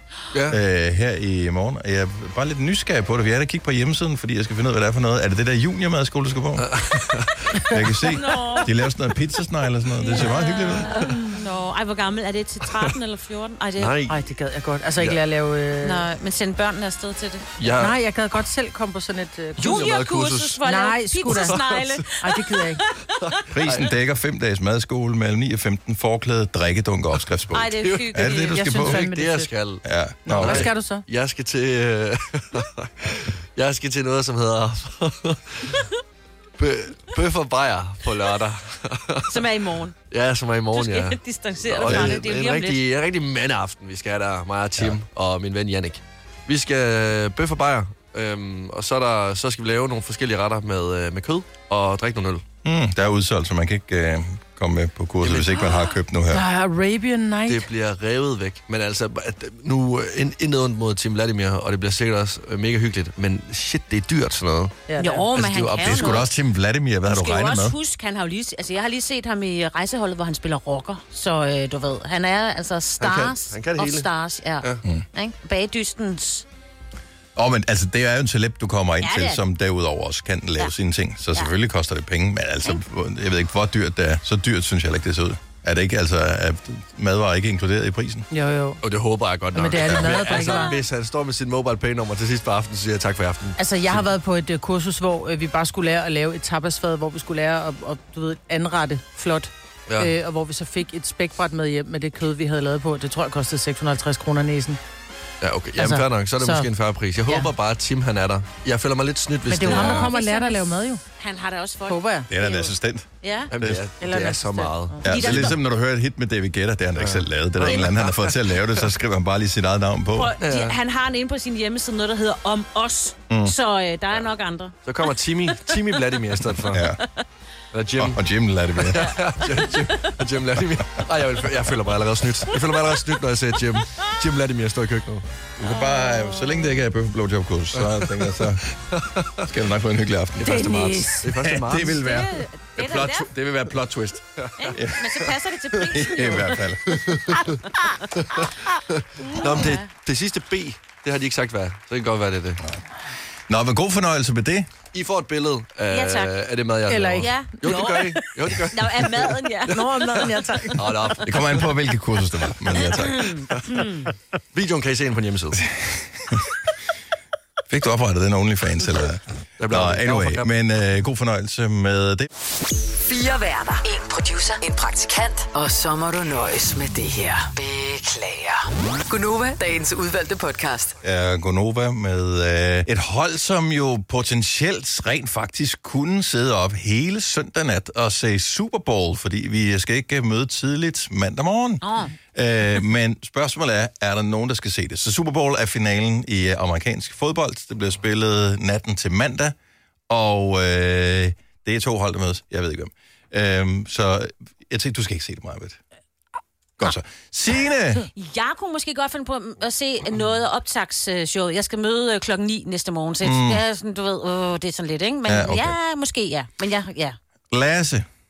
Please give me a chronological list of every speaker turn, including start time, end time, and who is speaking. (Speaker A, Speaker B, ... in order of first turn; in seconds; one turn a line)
Speaker A: 0.3-0.6
Speaker B: 0.5-6.7
Speaker A: 6.6-7.6
Speaker B: 7.7-11.0
Speaker C: 8.0-8.7
Speaker C: 10.0-13.9
Speaker A: 13.8-14.2
Speaker D: 14.1-16.0
Speaker C: 15.8-17.4
Speaker A: 17.6-18.0
Speaker D: 17.8-19.9
Speaker A: 19.6-20.6
Speaker C: 19.6-22.9
Speaker D: 20.6-21.6
Speaker A: 21.2-22.0
Speaker D: 22.2-22.8
Speaker A: 23.2-23.9
Speaker B: 23.5-29.1
Speaker C: 27.5-28.6
Speaker A: 27.8-29.8
Speaker D: 28.5-29.5
Speaker B: 29.8-30.7
Speaker D: 30.2-31.0
Speaker A: 30.4-35.8
Speaker A: 36.6-39.4
Speaker C: 39.3-40.0
Speaker A: 40.1-52.4
Speaker C: 40.7-42.9
Speaker B: 41.8-42.2
Speaker B: 52.6-56.4
Speaker A: 55.2-55.5
Speaker D: 56.3-57.7
Speaker A: 57.5-64.8
Speaker D: 64.9-65.3
Speaker C: 65.0-66.3
Speaker A: 65.3-66.2
Speaker B: 65.8-67.8
Speaker C: 67.1-76.4
Speaker A: 73.0-74.1
Speaker B: 77.3-88.2
Speaker C: 79.0-79.4
Speaker D: 88.3-88.8
Speaker A: 88.8-94.0
Speaker D: 89.5-90.7
Speaker B: 89.8-90.2
Speaker C: 90.3-90.8
Speaker D: 93.6-104.8
Speaker A: 105.4-110.1
Speaker D: 105.8-106.7
Speaker D: 109.5-111.0
Speaker C: 109.7-113.5
Speaker D: 111.9-112.3
Speaker B: 112.3-113.8
Speaker A: 113.5-115.5
Speaker D: 114.0-115.0
Speaker B: 115.0-120.3
Speaker C: 115.0-115.6
Speaker A: 117.0-118.6
Speaker C: 120.1-126.2
Speaker A: 120.4-120.8
Speaker A: 124.8-126.8
Speaker B: 126.7-127.0
Speaker A: 127.7-128.2
Speaker B: 128.0-129.1
Speaker A: 128.8-135.2
Speaker C: 129.0-129.9
Speaker B: 135.6-138.6
Speaker C: 135.6-136.7
Speaker A: 137.7-139.4
Speaker B: 139.4-140.7
Speaker A: 140.4-142.0
Speaker D: 140.4-141.3
Speaker B: 141.3-145.0
Speaker C: 141.8-143.3
Speaker A: 144.4-144.7
Speaker C: 144.6-146.6
Speaker B: 145.9-147.1
Speaker A: 147.1-147.4
Speaker A: 148.2-152.6
Speaker C: 149.3-149.8
Speaker B: 153.5-154.7
Speaker A: 154.9-159.4
Speaker C: 155.9-156.3
Speaker D: 156.9-157.4
Speaker C: 157.2-160.0
Speaker D: 159.7-161.1
Speaker A: 160.7-161.6
Speaker B: 161.2-163.3
Speaker C: 162.8-164.1
Speaker A: 163.5-163.8
Speaker A: 164.5-165.6
Speaker B: 165.8-166.4
Speaker B: 167.7-172.3
Speaker A: 169.6-170.5
Speaker E: 173.0-180.9
Speaker B: 181.0-191.8
Speaker C: 191.8-192.1
Speaker B: 192.3-199.5
Speaker B: 200.1-205.8
Speaker B: 206.8-208.1
Speaker C: 208.0-217.2
Speaker B: 213.2-213.6
Speaker B: 215.2-215.8
Speaker B: 217.5-218.1